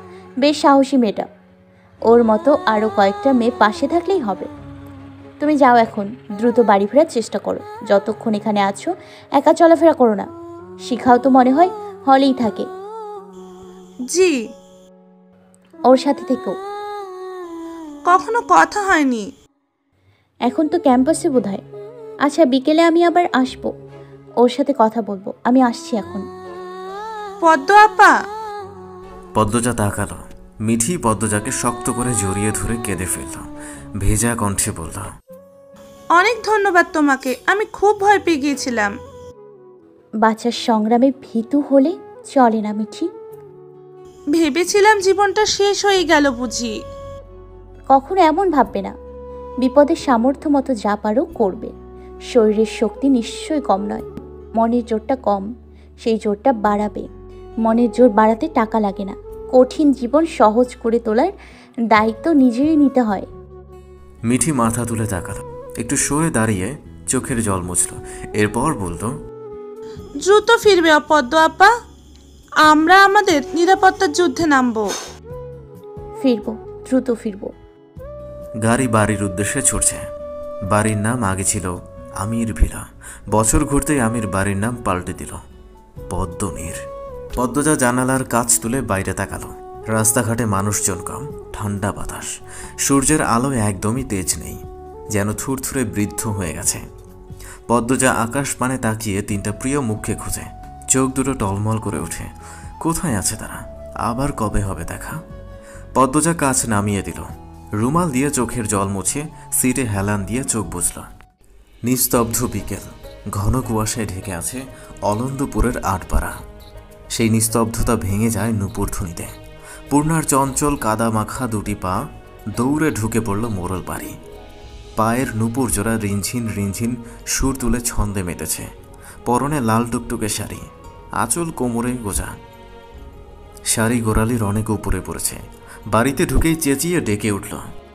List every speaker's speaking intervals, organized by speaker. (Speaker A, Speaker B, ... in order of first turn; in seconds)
Speaker A: 0.4-1.3, 2.1-4.5, 5.4-10.3, 10.9-12.7, 15.9-16.6, 20.5-21.6, 22.3-23.7, 24.4-26.2, 40.2-43.1, 47.9-48.9, 49.6-51.7, 52.3-54.1, 54.6-55.5, 56.0-57.1, 57.6-61.3, 61.9-63.3, 76.2-77.5
Speaker B: 14.1-14.4, 18.1-19.3, 27.4-28.1, 36.2-38.9, 44.3-46.7, 70.3-71.7, 72.7-74.9
Speaker C: 29.4-33.5, 34.0-35.1, 64.3-69.1, 78.6-80.0, 80.7-85.4, 86.1-86.8, 87.4-92.3, 92.9-94.6, 95.1-96.8, 97.7-105.2, 106.0-111.1, 111.9-116.4, 117.1-119.3, 119.9-122.0, 122.6-124.2, 125.0-128.7, 129.3-130.7, 131.2-132.3, 133.7-135.4, 135.9-137.6